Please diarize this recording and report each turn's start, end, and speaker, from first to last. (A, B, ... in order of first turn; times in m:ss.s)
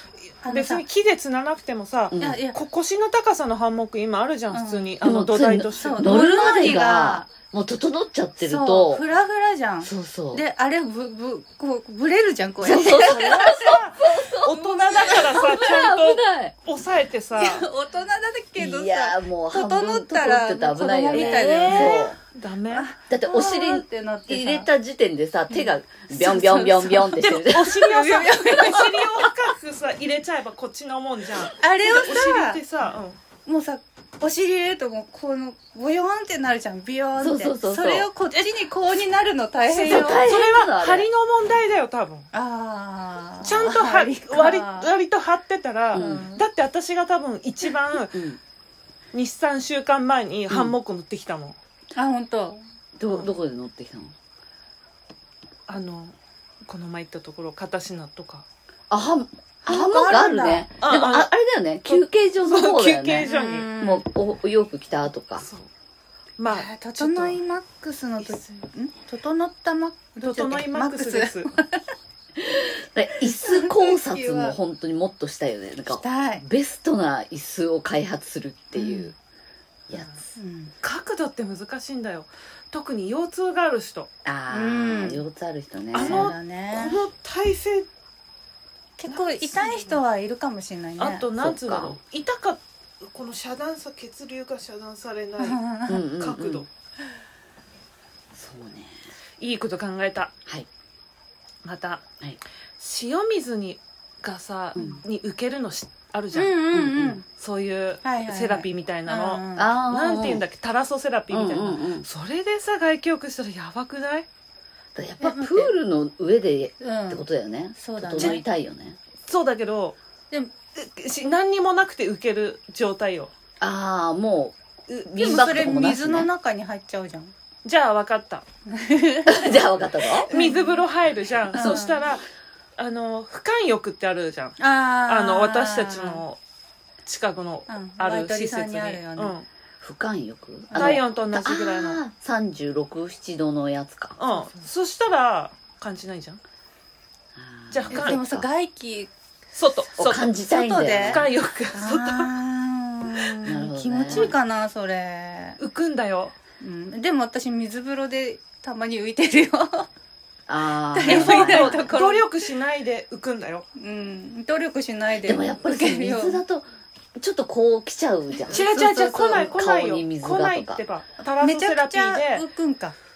0:00.4-0:06.2 A
0:00.4-0:00.8 B
0:02.1-0:02.4 C
0:02.2-0:02.6 B
0:04.5-0:05.0 B
0:05.0-0:09.0 C
0:05.8-0:07.3 B
0:08.4-0:13.8 B
0:09.8-0:10.4 C
0:12.6-0:16.5 C
0:12.6-0:17.7 A
0:14.6-0:15.7 B
0:17.3-0:22.1 B
0:18.6-0:22.2 C
0:21.1-0:22.9 A
0:22.7-0:24.7 B
0:23.1-0:27.8 C
0:26.1-0:27.1 B
0:27.1-0:33.2 A
0:27.7-0:29.3 B
0:31.5-0:32.6 B
0:33.4-0:40.3 B
0:37.2-0:38.1 C
0:39.7-0:41.1 C
0:39.8-0:42.3 A
0:42.3-0:44.9 B
0:43.4-0:48.2 A
0:45.9-0:46.3 C
0:45.9-0:46.4 B
0:48.1-0:48.4 C
0:49.1-0:51.6 A
0:50.5-0:50.8 C
0:51.9-0:52.6 B
0:53.0-0:54.1 C
0:55.7-0:58.4 A
0:58.9-1:05.5 C
0:59.6-1:00.7 B
1:00.8-1:01.3 A
1:01.8-1:03.7 A
1:03.2-1:04.0 B
1:05.4-1:05.7 A
1:06.4-1:07.4 A
1:06.5-1:11.8 B
1:08.2-1:08.4 A
1:10.2-1:11.6 A
1:12.4-1:19.1 C
1:13.2-1:14.6 B
1:15.9-1:16.4 B
1:18.7-1:19.1 B
1:19.9-1:20.3 C
1:20.4-1:20.7 B
1:20.8-1:24.1 A
1:24.2-1:26.3 C
1:24.5-1:25.2 B
1:25.9-1:27.0 B
1:25.9-1:27.9 A
1:29.0-1:31.2 B
1:29.0-1:30.0 A
1:31.0-1:35.6 A
1:31.4-1:32.0 C
1:35.4-1:36.1 B
1:35.9-1:36.6 C
1:36.2-1:36.7 A
1:38.3-1:39.0 C
1:39.4-1:40.3 A
1:41.6-1:42.0 A
1:42.8-1:46.6 A
1:44.7-1:45.0 C
1:44.8-1:45.0 B
1:46.3-1:47.2 B
1:46.7-1:47.2 C
1:47.4-1:54.3 A
1:48.0-1:49.7 B
1:49.6-1:50.4 C
1:51.3-1:52.1 C
1:54.9-1:59.0 C
1:55.2-1:55.8 B
1:56.8-1:57.2 B
1:57.8-1:58.4 B
1:59.3-2:00.0 A
2:00.7-2:03.3 A
2:03.6-2:06.3 C
2:04.9-2:05.5 A
2:05.2-2:07.3 B
2:07.6-2:08.4 A
2:08.7-2:09.6 B
2:09.3-2:10.3 C
2:10.3-2:10.8 B
2:10.3-2:12.2 A
2:11.5-2:11.9 C
2:11.5-2:12.0 B
2:12.8-2:16.4 A
2:14.6-2:16.2 B
2:17.0-2:19.5 A
2:17.7-2:19.3 B
2:19.8-2:24.2 C
2:20.7-2:21.0 B
2:20.8-2:22.0 A
2:24.2-2:26.4 A
2:24.3-2:24.6 B
2:27.3-2:28.5 C
2:27.7-2:28.2 A
2:27.9-2:29.1 B
2:29.5-2:30.3 A
2:30.0-2:31.3 C
2:30.5-2:35.6 B
2:31.0-2:32.3 A
2:33.3-2:33.6 A
2:33.4-2:34.3 C
2:35.6-2:36.3 A
2:36.6-2:39.9 B
2:40.5-2:41.9 C
2:40.9-2:42.4 B
2:41.0-2:43.6 A
2:43.8-2:46.4 B
2:45.2-2:46.7 C
2:47.2-2:50.8 C
2:48.5-2:49.5 B
2:48.5-2:52.4 A
2:51.4-2:53.0 B